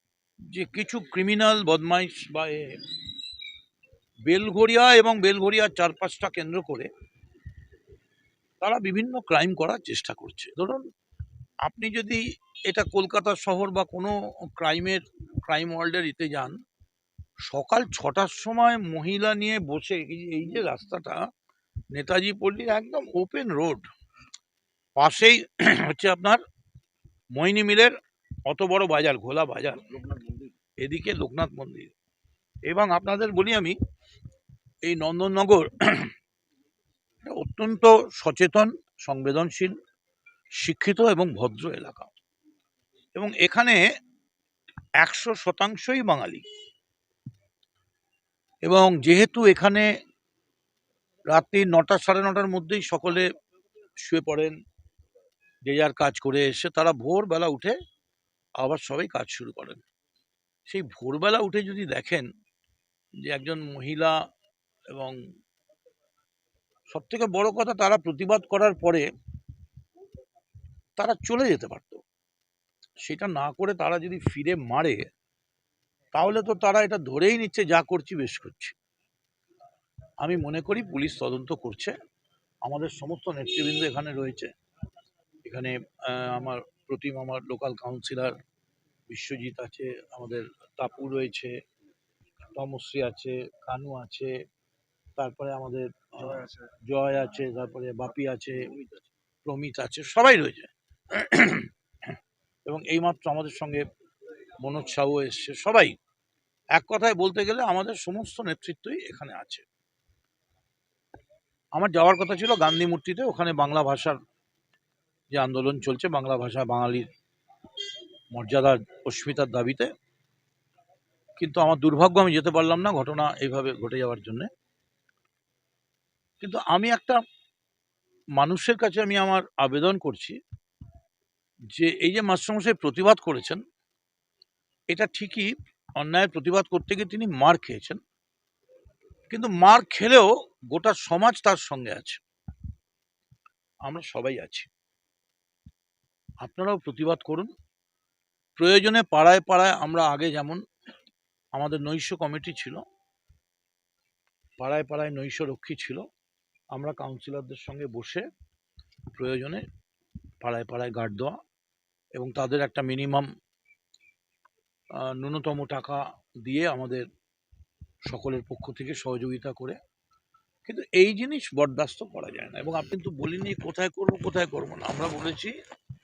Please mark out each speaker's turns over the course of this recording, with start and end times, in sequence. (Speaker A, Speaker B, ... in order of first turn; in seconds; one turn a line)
Speaker A: 0.5-2.8
Speaker A: 4.3-6.9
Speaker A: 8.6-10.8
Speaker A: 11.6-16.6
Speaker A: 17.5-21.2
Speaker A: 21.9-23.8
Speaker A: 25.0-26.4
Speaker A: 27.3-27.9
Speaker A: 28.5-31.9
Speaker A: 32.7-33.8
Speaker A: 34.8-36.1
Speaker A: 37.2-39.8
Speaker A: 40.6-42.1
Speaker A: 43.1-43.8
Speaker A: 45.0-46.4
Speaker A: 48.6-49.9
Speaker A: 51.3-53.3
Speaker A: 54.0-54.5
Speaker A: 55.6-57.8
Speaker A: 58.6-59.8
Speaker A: 60.7-62.3
Speaker A: 63.2-64.1
Speaker A: 64.9-65.2
Speaker A: 66.9-69.1
Speaker A: 71.0-72.0
Speaker A: 73.0-75.0
Speaker A: 76.1-78.8
Speaker A: 80.2-82.0
Speaker A: 82.6-84.5
Speaker A: 85.4-88.4
Speaker A: 89.1-91.5
Speaker A: 92.5-94.3
Speaker A: 95.2-98.8
Speaker A: 99.4-101.7
Speaker A: 102.7-103.8
Speaker A: 104.6-106.0
Speaker A: 106.8-109.6
Speaker A: 111.7-114.2
Speaker A: 115.3-117.1
Speaker A: 118.3-119.9
Speaker A: 121.4-124.5
Speaker A: 126.4-127.2
Speaker A: 128.4-130.4
Speaker A: 131.7-133.6
Speaker A: 134.9-138.0
Speaker A: 139.3-142.2
Speaker A: 143.8-144.7
Speaker A: 146.4-147.5
Speaker A: 148.6-150.6
Speaker A: 151.5-152.8
Speaker A: 154.6-156.0
Speaker A: 156.7-158.2
Speaker A: 159.1-159.6
Speaker A: 160.4-161.4
Speaker A: 162.1-163.3
Speaker A: 165.0-167.1
Speaker A: 168.1-169.8
Speaker A: 170.7-175.5